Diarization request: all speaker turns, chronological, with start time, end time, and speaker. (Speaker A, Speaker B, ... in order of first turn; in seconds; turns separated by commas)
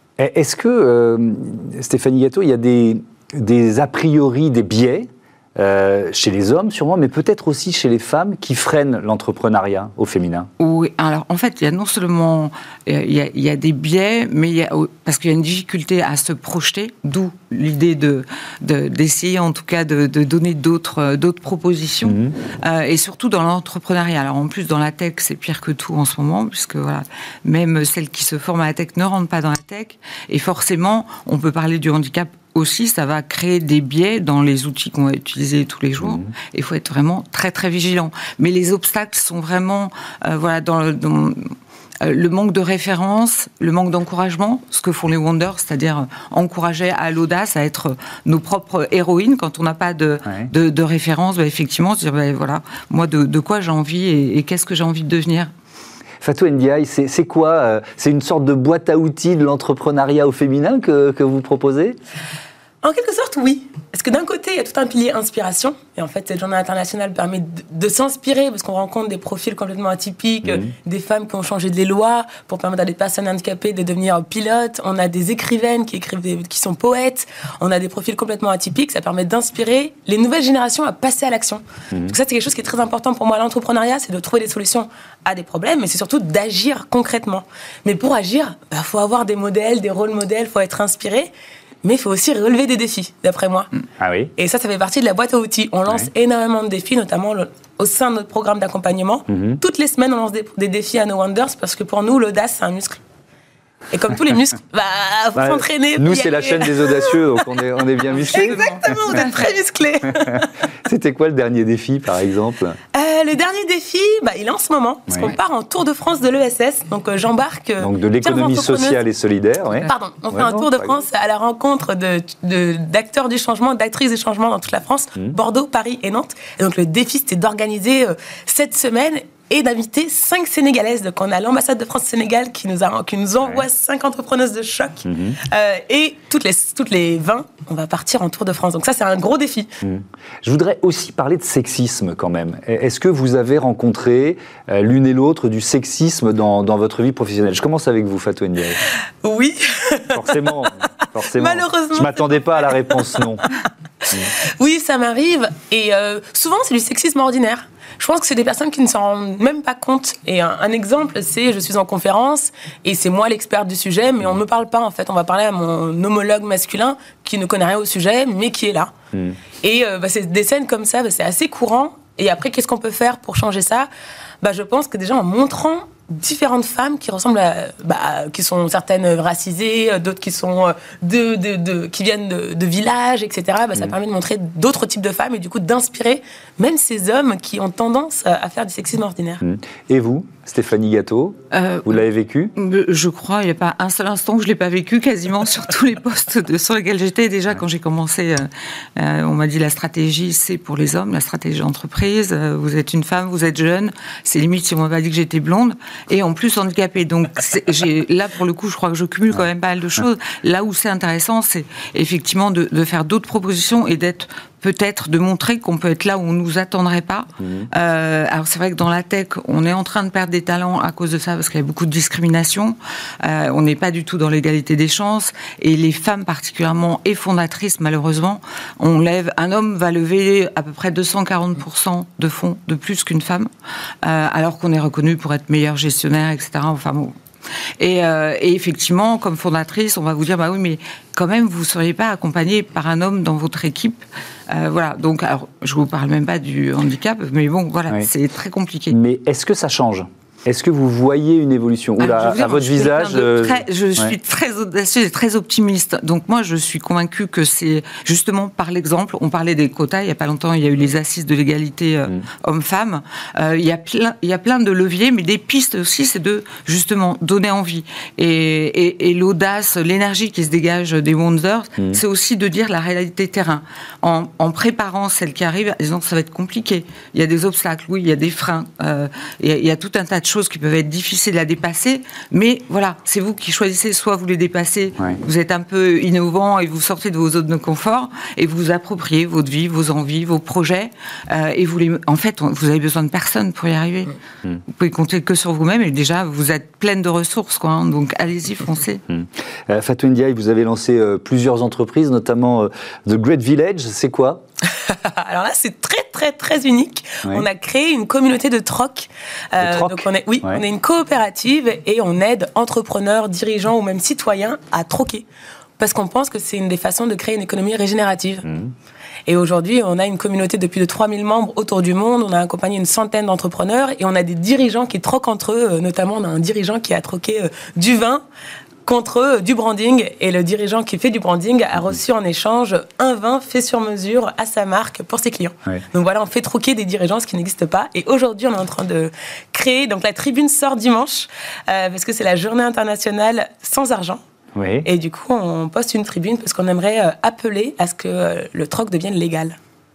Speaker A: 0.2-10.5, Speaker B: 10.6-55.5, Speaker A: 22.1-22.4, Speaker A: 36.0-36.3, Speaker A: 56.2-62.0, Speaker C: 62.8-91.3, Speaker A: 70.4-70.7, Speaker C: 91.8-93.7, Speaker A: 94.0-94.3, Speaker C: 94.4-103.0, Speaker A: 99.3-99.6, Speaker C: 103.9-107.6, Speaker A: 105.3-109.2, Speaker B: 108.1-109.5, Speaker C: 108.1-110.5, Speaker A: 110.1-112.8, Speaker C: 112.9-119.0, Speaker A: 115.1-115.4, Speaker A: 117.8-120.9, Speaker C: 119.8-139.7, Speaker A: 135.1-135.4, Speaker A: 139.8-148.8, Speaker C: 149.2-150.5, Speaker A: 150.1-153.5, Speaker C: 151.4-153.0, Speaker C: 154.1-168.9, Speaker A: 169.1-169.4, Speaker C: 169.6-173.9, Speaker C: 174.4-189.4, Speaker A: 189.4-192.5, Speaker B: 191.5-192.0, Speaker B: 192.6-233.5, Speaker A: 217.4-217.7, Speaker B: 234.0-237.2, Speaker B: 237.8-249.0, Speaker A: 248.9-254.2, Speaker B: 252.0-294.1, Speaker B: 294.7-299.0, Speaker A: 299.1-304.4, Speaker C: 304.7-315.2, Speaker A: 309.6-310.6, Speaker C: 315.8-318.4, Speaker A: 318.4-318.7, Speaker C: 319.3-328.2, Speaker C: 328.9-344.2, Speaker A: 344.6-344.9, Speaker C: 344.9-349.6